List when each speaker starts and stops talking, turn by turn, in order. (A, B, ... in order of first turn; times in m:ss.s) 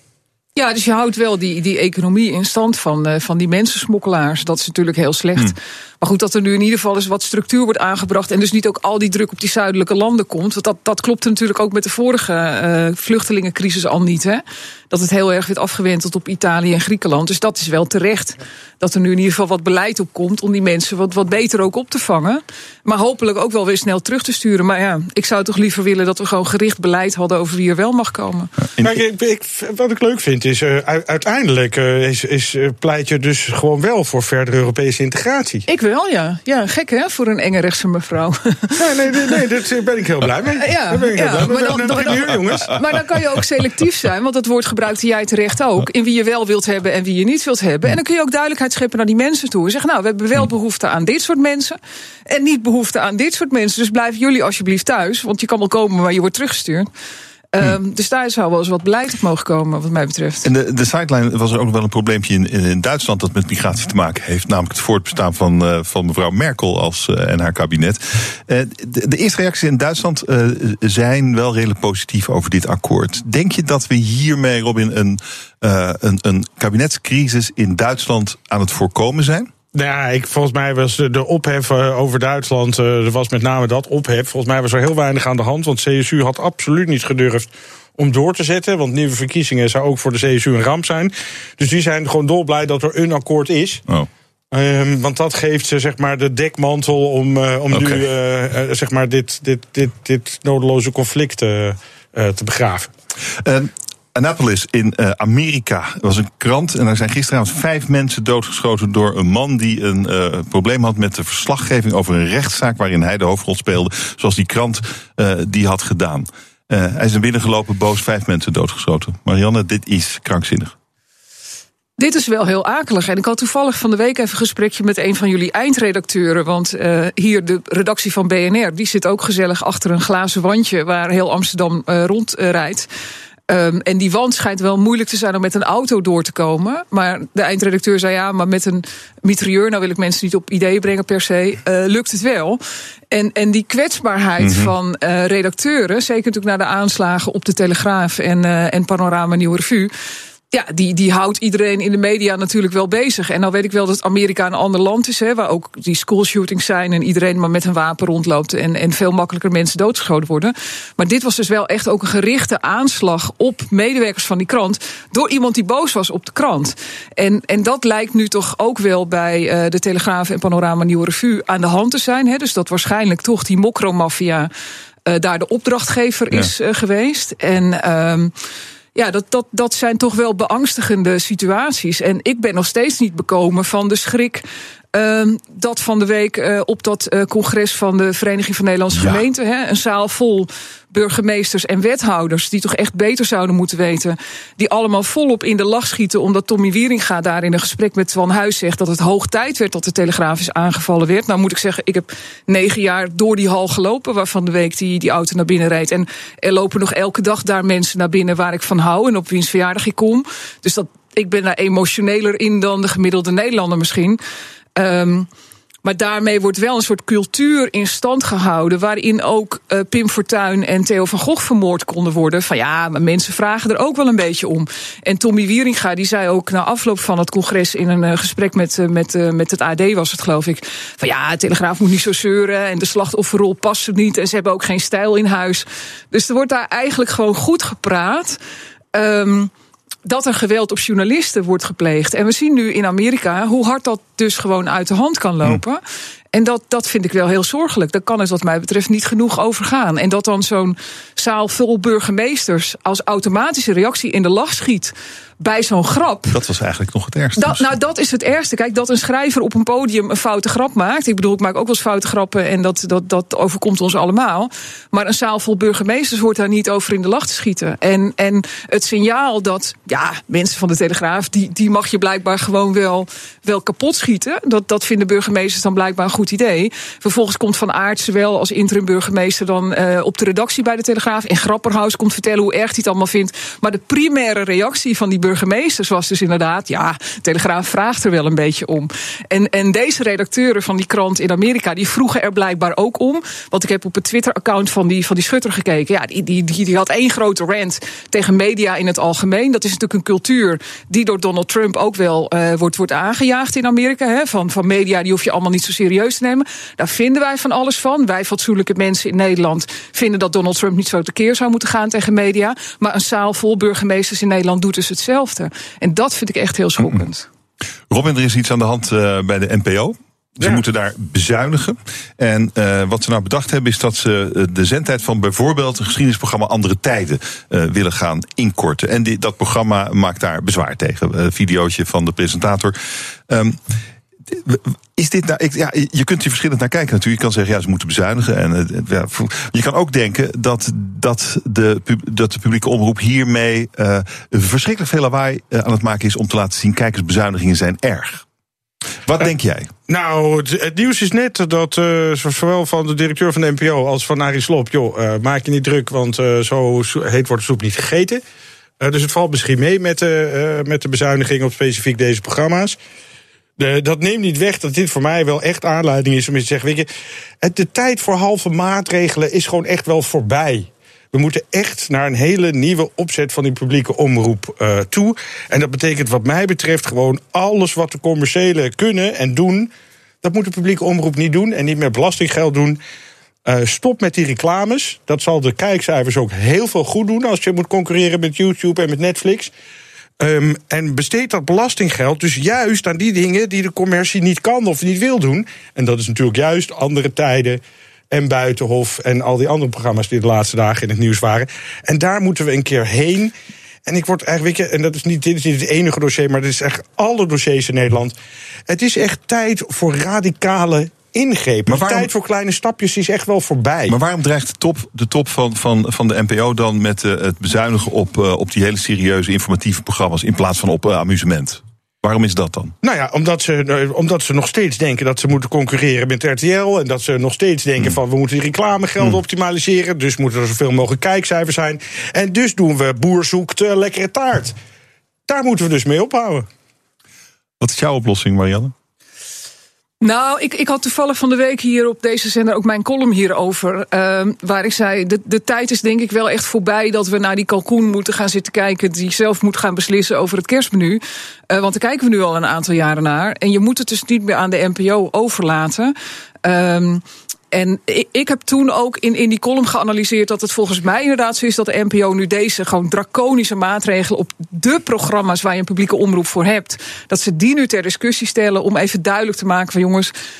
0:00.6-0:28.5 A
0:28.8-0:35.6 B
0:35.7-0:38.8 A
0:38.8-0:42.7 B
0:40.6-0:56.9 A
0:57.5-1:00.5 A
1:00.4-1:19.5 C
1:19.7-1:33.8 B
1:34.5-1:42.9 B
1:37.7-1:38.0 C
1:43.4-2:00.7 C
2:02.0-2:12.9 A
2:13.5-2:22.6 A
2:23.1-2:29.9 A
2:24.4-2:24.7 C
2:30.5-2:54.5 A
2:55.0-2:58.3 A
2:58.9-3:04.4 A
3:04.9-3:34.2 A
3:34.8-3:35.3 A
3:35.8-3:58.4 A
3:58.9-3:59.5 A
4:00.0-4:05.8 A
4:06.3-4:16.4 A
4:16.3-4:17.7 C
4:17.4-5:17.2 A
5:17.9-5:32.8 C
5:33.3-5:33.6 C
5:34.3-5:48.2 C
5:49.0-5:49.7 C
5:49.9-5:58.2 B
5:58.8-6:02.8 B
6:03.6-6:06.9 B
6:07.4-6:19.7 B
6:20.2-6:22.8 B
6:23.4-6:29.5 B
6:30.2-6:37.6 B
6:38.1-6:43.3 B
6:43.8-6:48.1 B
6:48.7-6:54.0 B
6:51.7-6:52.1 C
6:53.9-7:02.7 C
7:02.8-7:14.6 B
7:15.3-7:16.4 B
7:17.6-7:18.7 C
7:20.0-7:50.1 A